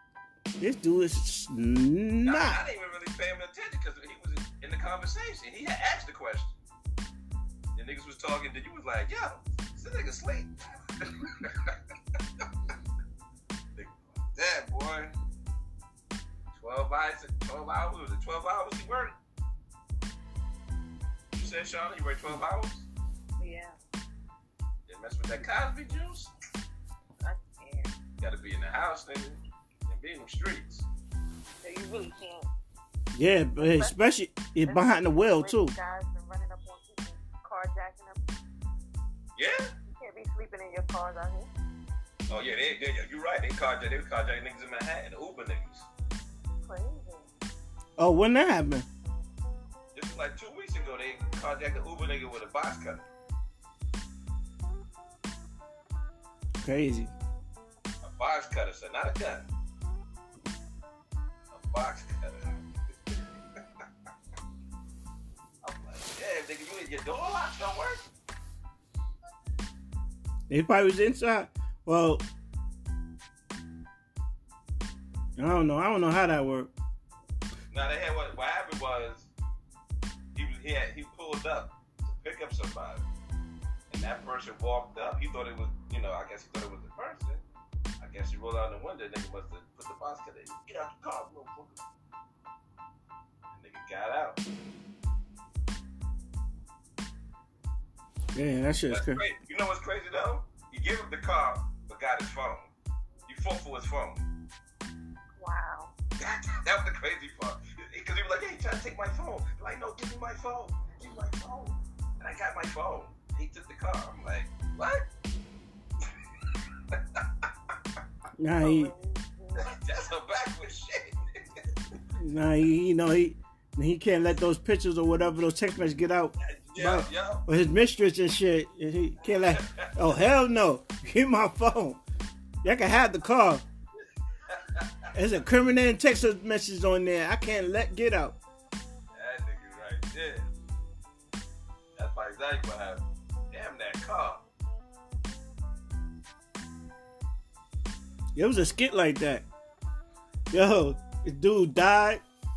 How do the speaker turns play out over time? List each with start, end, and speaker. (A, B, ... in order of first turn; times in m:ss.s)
0:00.6-0:02.6 A
0:02.2-0:06.5 B
0:07.8-0:11.8 B
0:13.7-0:15.1 B
0:16.6-0:19.2 B
0:21.3-0:22.9 B
0:23.4-0:23.7 C
0:24.9-0:26.3 B
0:27.2-0:27.9 C
0:28.2-0:30.8 B
0:31.6-0:32.5 C
0:33.1-0:35.7 A
0:33.6-0:34.0 C
0:34.6-0:38.2 C
0:39.4-0:39.7 B
0:39.9-0:41.5 C
0:42.3-0:45.9 B
0:46.6-0:47.3 C
0:48.0-0:48.8 A
0:49.9-0:53.0 B
0:56.6-0:57.1 A
0:58.0-0:59.5 B
1:01.5-1:03.1 B
1:05.6-1:08.0 B
1:10.5-1:12.2 A
1:15.4-1:16.7 A
1:17.7-1:19.3 B
1:20.3-1:23.0 B
1:23.9-1:27.4 B
1:28.0-1:31.8 B
1:33.5-1:34.4 B
1:38.3-1:39.2 A
1:38.9-1:42.7 B
1:43.3-1:44.2 B
1:45.4-1:45.9 C
1:46.2-1:55.1 B
1:56.9-1:57.2 B
1:58.4-1:58.9 A
1:58.6-1:59.7 C
1:59.6-2:01.6 B
2:02.2-2:12.0 A
2:06.4-2:07.5 B
2:09.3-2:10.0 B
2:12.6-2:13.6 A
2:14.5-2:14.9 B
2:15.1-2:18.4 A
2:19.1-2:20.5 B
2:22.0-2:24.4 B
2:28.4-2:29.4 A
2:30.5-2:32.2 A